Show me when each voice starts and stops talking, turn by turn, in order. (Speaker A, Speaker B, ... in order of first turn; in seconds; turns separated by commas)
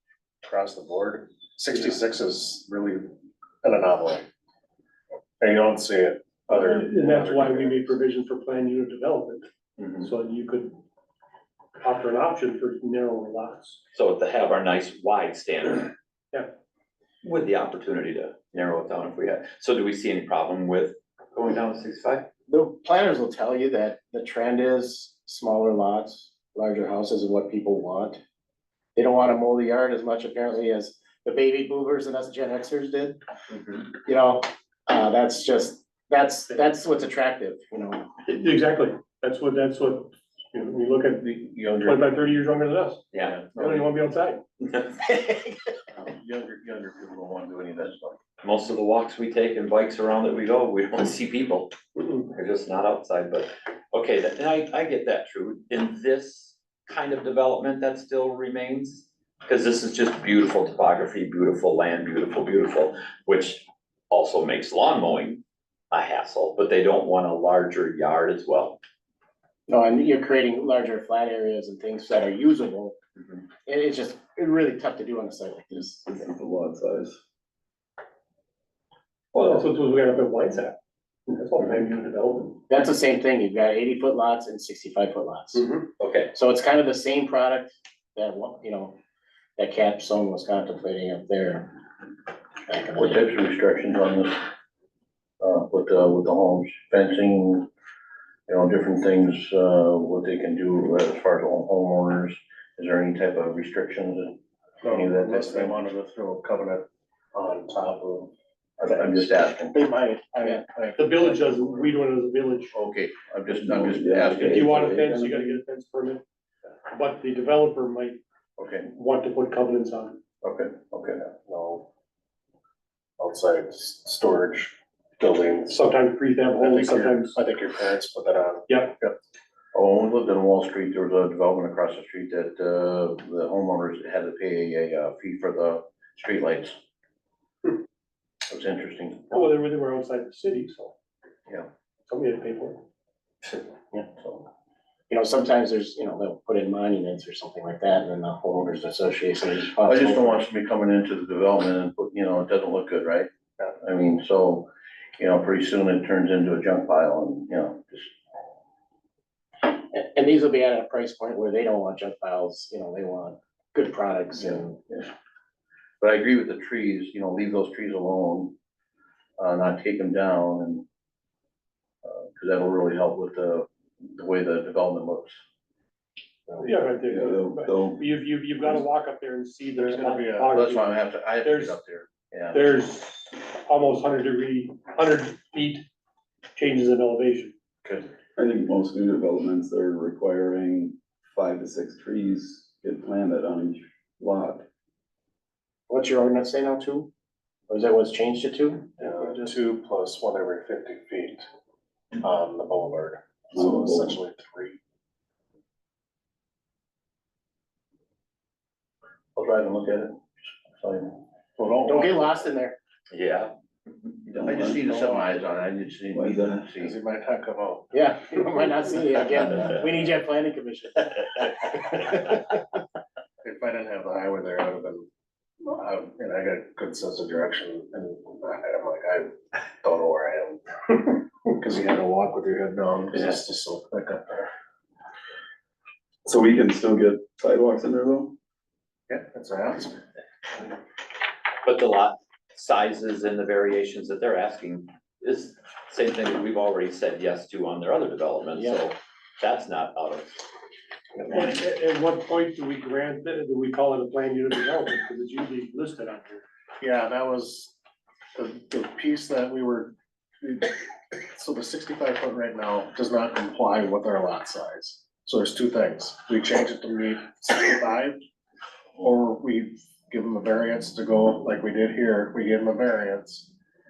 Speaker A: 0.4-3.1, Speaker A: 3.6-4.2, Speaker A: 5.4-8.0, Speaker B: 6.5-9.5, Speaker B: 10.0-10.8, Speaker B: 11.8-13.8, Speaker C: 13.9-15.9, Speaker C: 17.2-22.3, Speaker D: 22.5-28.2, Speaker D: 28.9-33.2, Speaker D: 34.0-38.1, Speaker B: 38.3-44.4, Speaker E: 41.3-42.1, Speaker E: 43.2-43.9, Speaker C: 44.6-45.1, Speaker E: 45.9-48.2, Speaker C: 48.4-51.7, Speaker C: 52.3-68.8, Speaker D: 69.7-73.0, Speaker D: 73.7-76.0, Speaker F: 75.8-77.2, Speaker B: 79.3-80.8, Speaker B: 81.3-82.6, Speaker D: 82.7-85.7, Speaker B: 85.5-85.9, Speaker C: 86.0-86.3, Speaker D: 86.3-89.0, Speaker D: 89.6-91.8, Speaker D: 92.7-93.3, Speaker E: 92.9-94.5, Speaker E: 95.4-97.7, Speaker E: 98.5-105.9, Speaker A: 104.8-108.3, Speaker E: 108.8-109.9, Speaker D: 109.7-110.6, Speaker A: 110.2-111.9, Speaker B: 111.0-112.7, Speaker E: 112.7-115.0, Speaker F: 113.5-115.6, Speaker B: 114.4-116.2, Speaker B: 116.9-118.2, Speaker E: 118.6-118.9, Speaker B: 118.8-120.2, Speaker E: 120.4-121.3, Speaker A: 121.5-121.9, Speaker A: 123.2-125.8, Speaker B: 125.7-127.4, Speaker A: 126.6-129.2, Speaker B: 128.7-128.9, Speaker E: 129.7-136.8, Speaker E: 138.5-139.5, Speaker B: 139.3-141.0, Speaker B: 142.1-142.8, Speaker E: 144.2-144.4, Speaker D: 145.1-150.5, Speaker E: 149.8-153.3, Speaker E: 153.8-158.1, Speaker D: 159.6-164.8, Speaker E: 164.4-165.1, Speaker E: 166.0-168.5, Speaker E: 169.4-170.8, Speaker E: 172.0-175.4, Speaker B: 176.6-181.8, Speaker F: 177.1-178.0, Speaker A: 179.8-180.6, Speaker E: 180.5-182.6, Speaker B: 182.5-185.8, Speaker B: 186.6-187.5, Speaker F: 188.4-194.7, Speaker D: 195.9-197.1, Speaker D: 197.7-199.5, Speaker A: 199.0-201.5, Speaker A: 202.2-204.8, Speaker F: 203.5-204.2, Speaker E: 209.3-210.2, Speaker E: 210.8-211.2, Speaker A: 211.6-212.3, Speaker D: 211.8-212.8, Speaker C: 213.1-214.1, Speaker F: 214.3-215.2, Speaker E: 214.4-216.9, Speaker F: 216.1-216.8, Speaker A: 216.8-217.9, Speaker D: 217.9-222.6, Speaker A: 223.4-225.1, Speaker A: 225.7-234.5, Speaker F: 236.2-238.3, Speaker A: 239.1-240.0, Speaker C: 241.6-250.4, Speaker D: 248.6-248.8, Speaker B: 251.3-256.4, Speaker A: 256.8-257.7, Speaker A: 258.4-268.2, Speaker A: 269.0-273.5